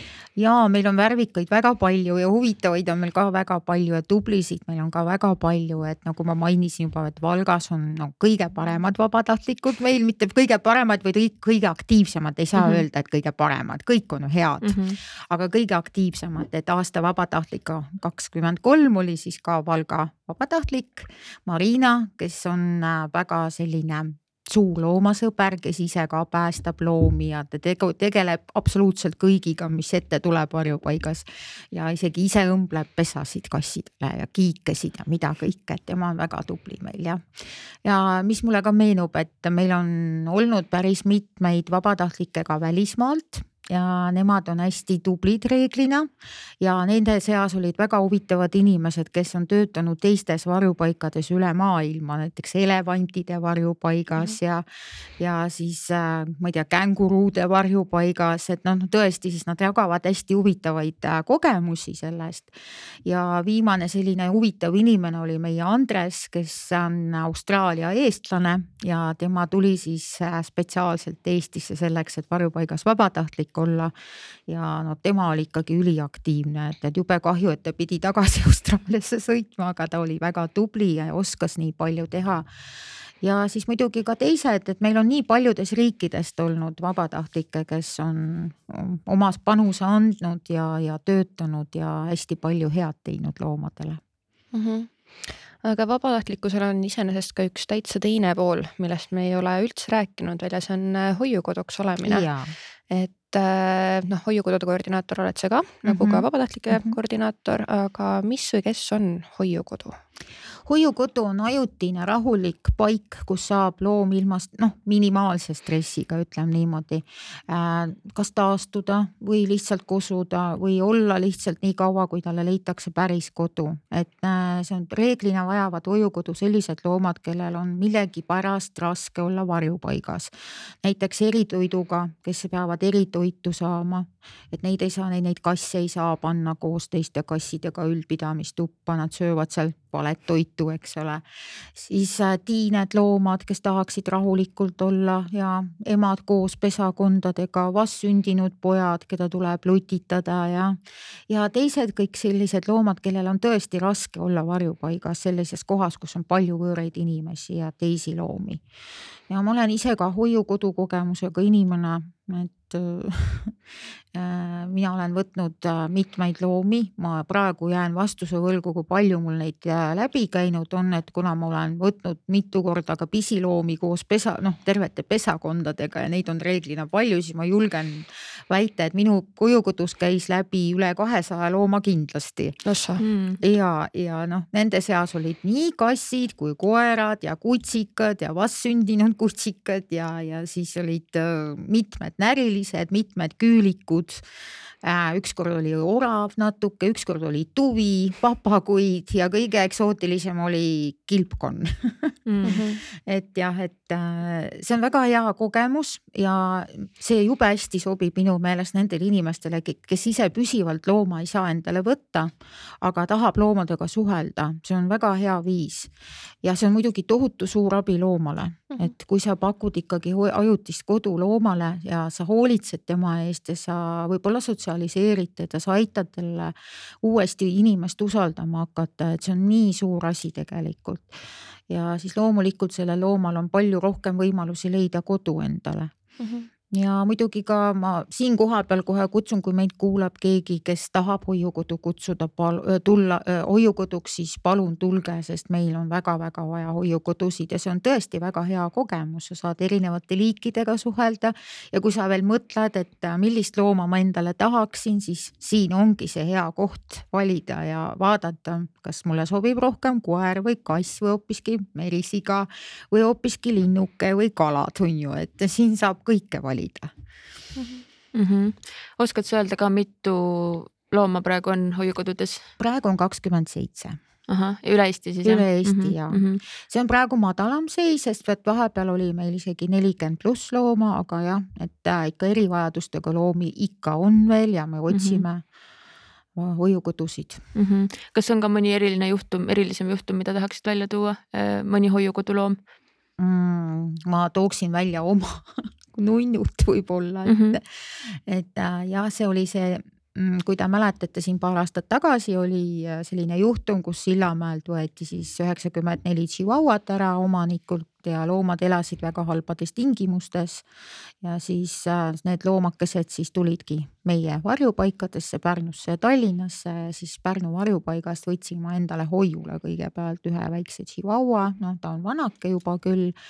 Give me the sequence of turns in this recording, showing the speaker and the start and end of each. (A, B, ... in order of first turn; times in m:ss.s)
0:00.4-0:46.1 A
0:14.6-0:15.0 B
0:46.6-0:54.6 A
0:55.2-1:02.5 A
1:03.0-1:13.9 A
1:14.5-1:22.4 A
1:23.2-1:34.0 A
1:34.5-1:42.3 C
1:42.0-1:42.5 A
1:42.9-1:50.0 C
1:45.8-1:47.0 A
1:50.6-2:10.3 A
2:10.8-2:21.2 A
2:21.8-2:30.8 A
2:31.3-2:38.6 A
2:39.3-2:43.6 A
2:44.1-3:02.6 A
3:02.6-3:03.0 C
3:03.0-3:03.4 B
3:03.4-3:14.2 A
3:14.8-3:22.2 A
3:22.2-3:22.6 B
3:22.4-3:22.8 C
3:22.9-3:35.9 A
3:36.4-3:55.9 A
3:56.2-3:56.5 C
3:56.7-4:26.9 A
4:27.6-4:27.8 C
4:28.1-4:32.5 B
4:32.6-4:34.0 A
4:34.3-4:36.4 B
4:35.2-4:45.4 A
4:44.9-4:45.2 B
4:46.4-4:47.4 A
4:47.5-4:52.6 B
4:53.2-5:10.6 A
4:57.2-4:57.6 B
5:11.2-5:23.2 A